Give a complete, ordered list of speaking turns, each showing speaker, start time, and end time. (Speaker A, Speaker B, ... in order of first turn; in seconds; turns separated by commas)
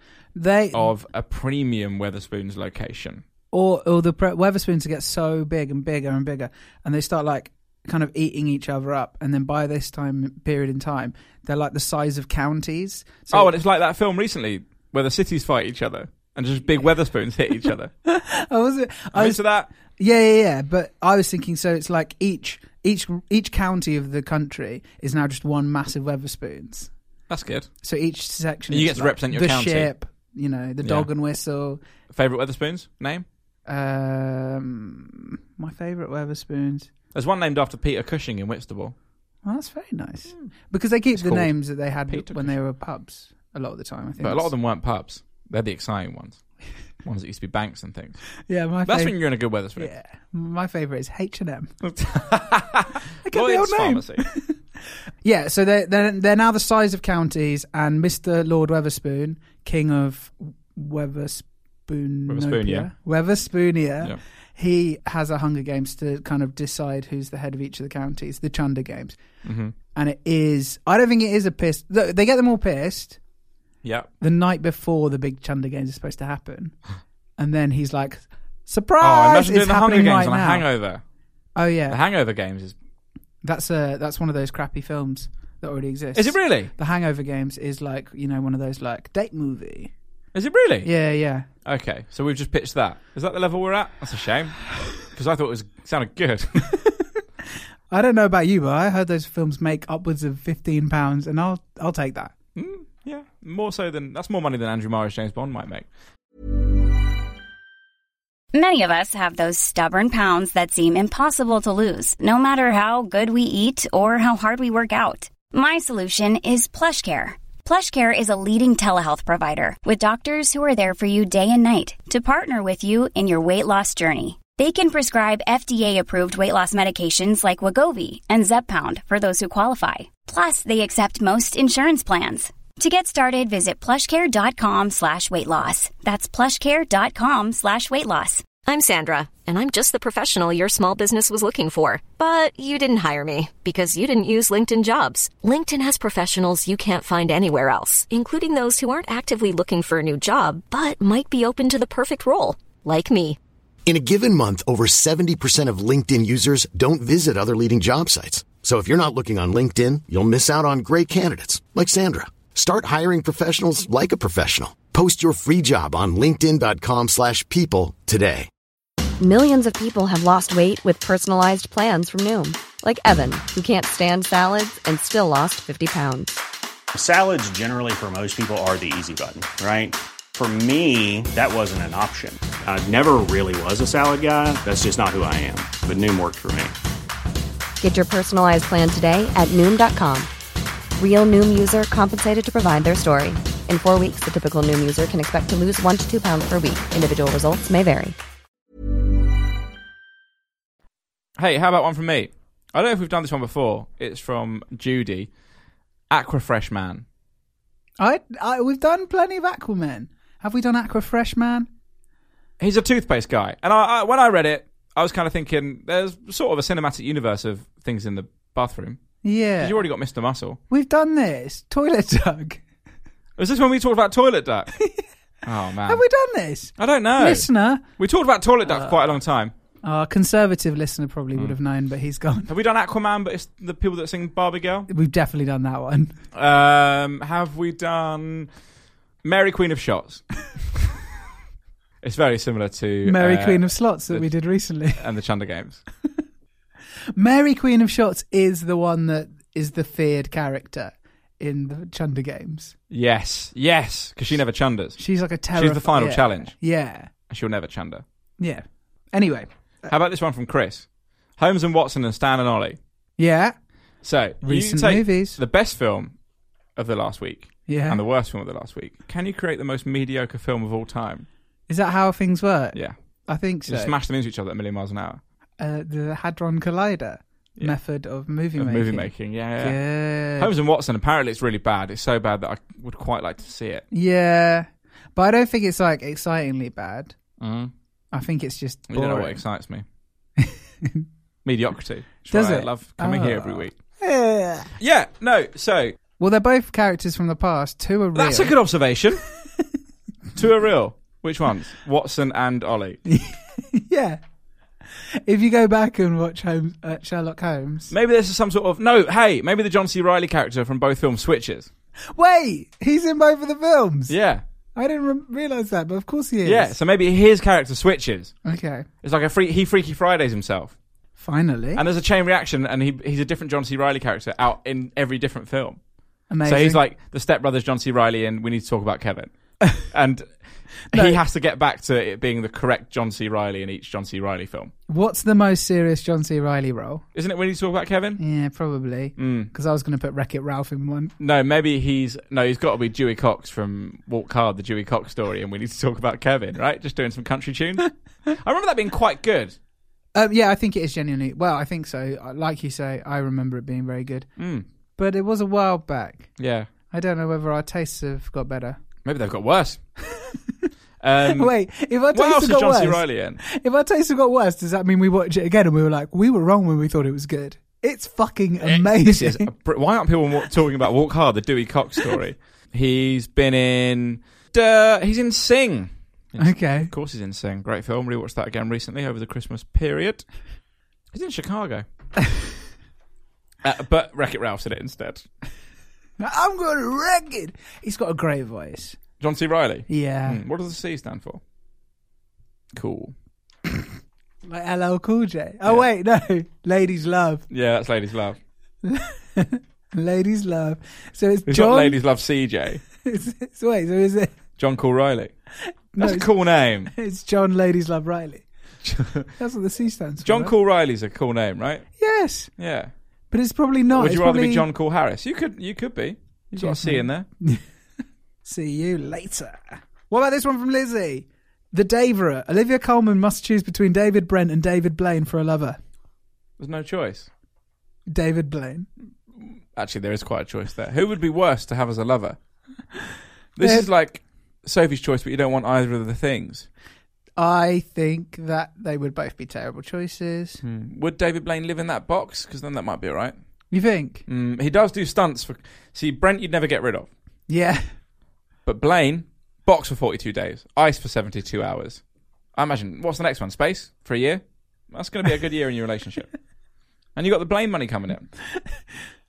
Speaker A: 0.3-0.9, Speaker B: 0.7-3.2, Speaker A: 3.5-13.5, Speaker B: 13.3-17.9, Speaker A: 18.0-26.9, Speaker B: 19.1-19.7, Speaker B: 27.3-27.7, Speaker A: 27.8-31.8, Speaker B: 28.7-29.9, Speaker B: 30.8-31.1, Speaker B: 32.1-33.2, Speaker A: 33.7-36.9, Speaker B: 37.1-38.9, Speaker A: 39.4-44.5, Speaker B: 41.1-42.5, Speaker B: 44.2-46.4, Speaker B: 47.0-48.2, Speaker A: 48.5-49.1, Speaker B: 48.9-49.9, Speaker A: 49.8-51.7, Speaker B: 51.8-54.2, Speaker A: 53.2-54.5, Speaker A: 55.2-69.2, Speaker B: 62.3-62.9, Speaker B: 69.4-69.7, Speaker A: 69.9-73.2, Speaker B: 73.8-74.1, Speaker A: 74.2-76.8, Speaker A: 77.4-80.7, Speaker B: 79.0-81.0, Speaker A: 81.5-82.0, Speaker B: 81.9-82.7, Speaker A: 83.4-89.9, Speaker B: 86.1-86.7, Speaker B: 90.3-90.9, Speaker A: 90.8-91.5, Speaker B: 91.6-96.8, Speaker A: 97.9-102.3, Speaker B: 102.5-105.9, Speaker C: 108.5-138.5, Speaker D: 138.6-153.4, Speaker E: 153.8-168.5, Speaker F: 169.2-176.4, Speaker G: 176.9-186.8, Speaker F: 187.8-190.3, Speaker F: 191.0-198.2, Speaker B: 201.4-205.3, Speaker B: 206.1-207.0, Speaker A: 208.0-211.7, Speaker B: 212.6-219.0, Speaker A: 219.2-219.8, Speaker B: 219.6-220.6, Speaker A: 220.7-222.6, Speaker B: 223.4-224.7, Speaker B: 225.4-226.0, Speaker A: 225.9-227.8, Speaker B: 226.8-229.5, Speaker A: 228.7-229.0, Speaker A: 229.8-232.5, Speaker B: 232.5-234.9, Speaker A: 234.9-236.2, Speaker B: 236.3-238.5, Speaker B: 239.2-240.2, Speaker B: 242.0-244.3, Speaker A: 243.0-245.0, Speaker B: 244.9-245.8, Speaker A: 247.2-252.7, Speaker B: 252.9-255.0, Speaker A: 255.0-257.1, Speaker B: 255.5-256.6, Speaker B: 257.3-258.0, Speaker A: 258.4-259.9, Speaker B: 259.9-262.8, Speaker A: 263.2-263.5, Speaker B: 264.0-266.1, Speaker A: 264.4-265.4, Speaker B: 266.8-271.2, Speaker A: 267.7-268.0, Speaker A: 271.7-272.8, Speaker A: 273.3-273.9, Speaker B: 273.7-275.2, Speaker A: 275.6-280.5, Speaker B: 278.6-279.8, Speaker B: 280.4-283.8, Speaker A: 283.9-287.1, Speaker B: 287.4-287.7, Speaker A: 288.1-289.4, Speaker B: 288.9-289.8, Speaker A: 290.4-291.0, Speaker B: 291.4-293.7, Speaker A: 292.3-294.7, Speaker B: 294.8-295.9, Speaker A: 296.2-298.5, Speaker B: 298.1-299.2, Speaker B: 300.3-303.0, Speaker A: 303.1-304.2, Speaker A: 305.2-307.9, Speaker B: 307.9-311.7, Speaker A: 312.1-314.1, Speaker B: 314.1-314.4, Speaker A: 314.7-316.7, Speaker B: 316.4-318.4, Speaker A: 318.4-318.9, Speaker B: 319.0-320.8, Speaker A: 321.2-321.8, Speaker B: 321.8-325.8, Speaker A: 326.3-326.8, Speaker B: 326.4-334.7, Speaker A: 330.9-331.2, Speaker A: 334.9-337.0, Speaker B: 337.1-338.2, Speaker A: 338.2-341.1, Speaker B: 339.2-339.5, Speaker B: 341.2-349.6, Speaker A: 350.1-354.3, Speaker B: 354.4-354.6, Speaker A: 355.0-356.3, Speaker B: 356.4-356.7, Speaker A: 356.9-358.8, Speaker B: 359.0-359.8, Speaker B: 361.0-361.5, Speaker A: 361.4-369.5, Speaker B: 362.1-363.4, Speaker B: 368.6-380.2, Speaker A: 376.4-376.9, Speaker B: 381.1-381.8, Speaker B: 383.6-385.2, Speaker A: 386.2-389.0, Speaker B: 389.2-391.4, Speaker A: 389.9-390.4, Speaker B: 392.7-393.1, Speaker A: 394.4-397.4, Speaker B: 397.5-398.4, Speaker A: 398.8-402.0, Speaker B: 401.5-402.8, Speaker A: 403.0-404.3, Speaker B: 404.6-405.3, Speaker A: 405.9-406.3, Speaker B: 406.0-406.9, Speaker A: 406.9-408.4, Speaker B: 408.8-409.3, Speaker A: 409.4-410.5, Speaker B: 410.2-411.9, Speaker A: 412.0-412.5, Speaker B: 412.6-412.9, Speaker A: 413.3-414.6, Speaker B: 413.9-417.3, Speaker A: 416.5-417.6, Speaker A: 418.4-425.8, Speaker B: 426.6-427.3, Speaker A: 428.1-428.9, Speaker B: 429.4-432.4, Speaker B: 433.6-436.7, Speaker A: 437.4-440.6, Speaker B: 440.6-443.3, Speaker A: 443.7-444.2, Speaker B: 444.3-447.1, Speaker A: 447.5-447.9, Speaker B: 448.6-452.0, Speaker B: 452.5-456.3, Speaker B: 457.1-458.3